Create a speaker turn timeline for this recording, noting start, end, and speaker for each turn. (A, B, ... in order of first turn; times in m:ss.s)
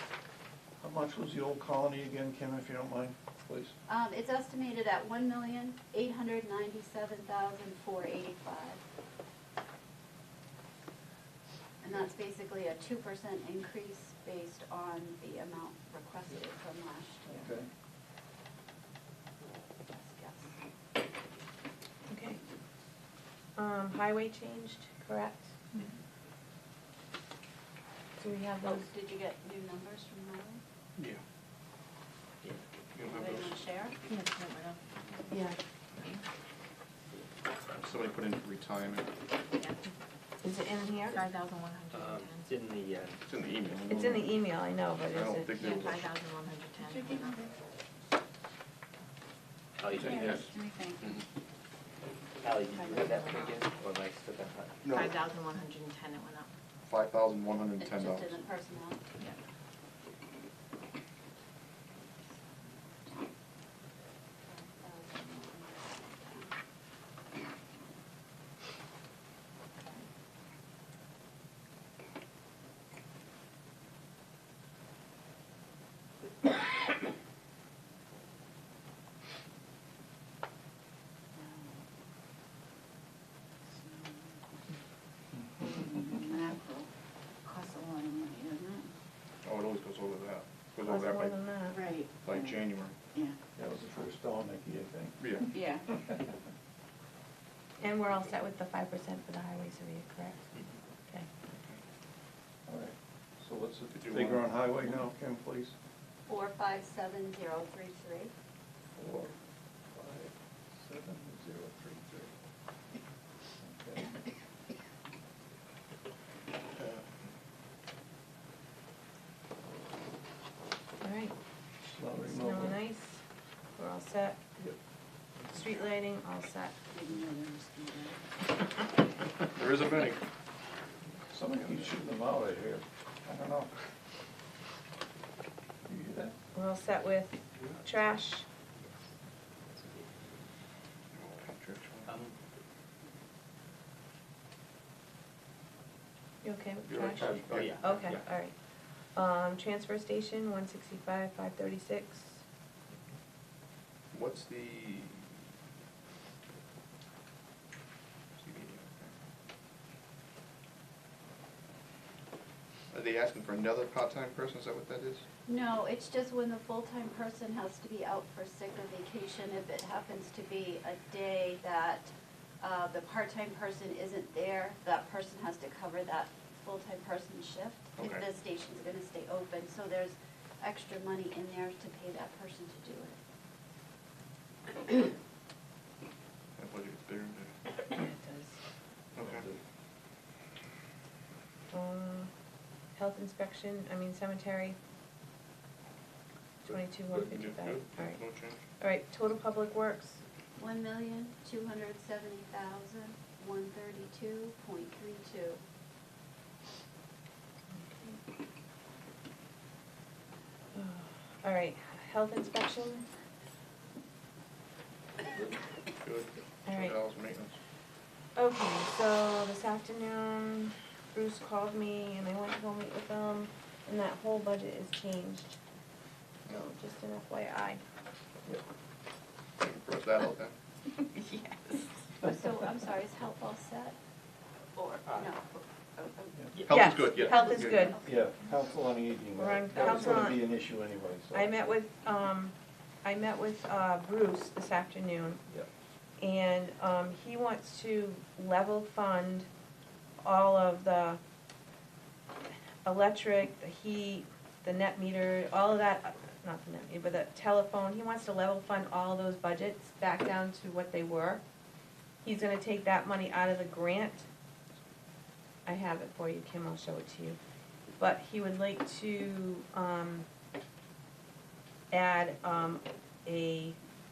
0:00.8-0:03.7 A
0:03.9-0:08.8 B
0:11.8-0:17.5 B
0:17.3-0:17.7 A
0:19.9-0:20.5 B
0:22.1-0:22.4 C
0:23.6-0:25.6 C
0:28.2-0:28.9 C
0:28.6-0:30.6 B
0:33.0-0:33.6 D
0:33.0-0:34.0 B
0:34.2-0:34.8 E
0:35.3-0:35.6 C
0:37.7-0:39.1 D
0:40.4-0:41.2 C
0:41.1-0:42.5 E
0:41.9-0:43.2 F
0:43.2-0:44.4 D
0:43.9-0:45.8 C
0:45.1-0:46.1 D
0:45.6-0:47.3 E
0:46.8-0:47.5 B
0:49.8-0:50.4 F
0:49.9-0:51.1 B
0:50.0-0:50.5 D
0:52.4-0:54.9 F
0:54.8-0:55.2 D
0:54.9-0:56.5 E
0:56.8-0:58.4 D
0:57.8-0:59.1 B
1:02.2-1:03.2 B
1:04.4-1:06.5 B
1:21.4-1:21.8 B
1:23.7-1:24.6 B
1:25.6-1:26.9 B
1:27.4-1:28.9 B
1:29.4-1:31.5 D
1:30.8-1:31.8 C
1:31.7-1:33.4 B
1:32.2-1:33.0 D
1:33.6-1:35.3 A
1:35.2-1:35.6 D
1:35.5-1:35.9 B
1:37.8-1:40.5 C
1:41.5-1:41.8 D
1:42.7-1:45.7 A
1:43.9-1:45.0 D
1:46.3-1:48.3 B
1:49.0-1:49.3 A
1:49.9-1:52.3 A
1:53.6-1:54.2 A
1:56.8-1:57.0 D
2:01.0-2:01.3 C
2:01.9-2:02.8 A
2:02.2-2:03.2 C
2:03.7-2:04.4 C
2:05.5-2:06.7 C
2:06.9-2:08.3 B
2:09.5-2:10.2 D
2:11.3-2:13.7 A
2:15.8-2:16.4 A
2:16.5-2:18.4 C
2:19.8-2:20.0 F
2:21.1-2:22.2 D
2:22.1-2:22.3 F
2:26.4-2:28.6 C
2:26.9-2:28.2 D
2:27.2-2:28.2 F
2:29.1-2:32.4 C
2:34.1-2:35.4 D
2:38.4-2:39.1 D
2:42.9-2:45.2 D
2:45.5-3:03.2 B
2:58.0-2:58.3 D
3:06.6-3:07.6 D
3:07.9-3:08.6 C
3:09.2-3:09.5 D
3:11.7-3:12.3 C
3:13.0-3:14.8 C
3:16.6-3:18.2 C
3:17.1-3:18.6 D
3:18.8-3:20.2 C
3:20.6-3:25.6 B
3:27.7-3:28.2 C
3:30.7-3:33.1 C
3:36.0-3:37.6 D
3:36.7-3:37.0 C
3:38.4-3:45.6 C
3:46.5-3:47.8 C
3:49.6-3:50.5 D
3:51.1-3:51.8 C
3:52.2-3:54.0 B
3:54.8-3:58.3 B
3:56.6-3:57.9 D
3:56.7-3:58.0 C
3:58.0-4:01.5 A
3:59.4-4:00.4 C
4:01.3-4:05.4 C
4:06.2-4:09.5 C
4:10.2-4:11.2 C
4:12.8-4:21.4 C
4:22.2-4:24.3 C
4:25.7-4:27.4 C
4:28.0-4:30.3 C
4:31.9-4:33.8 C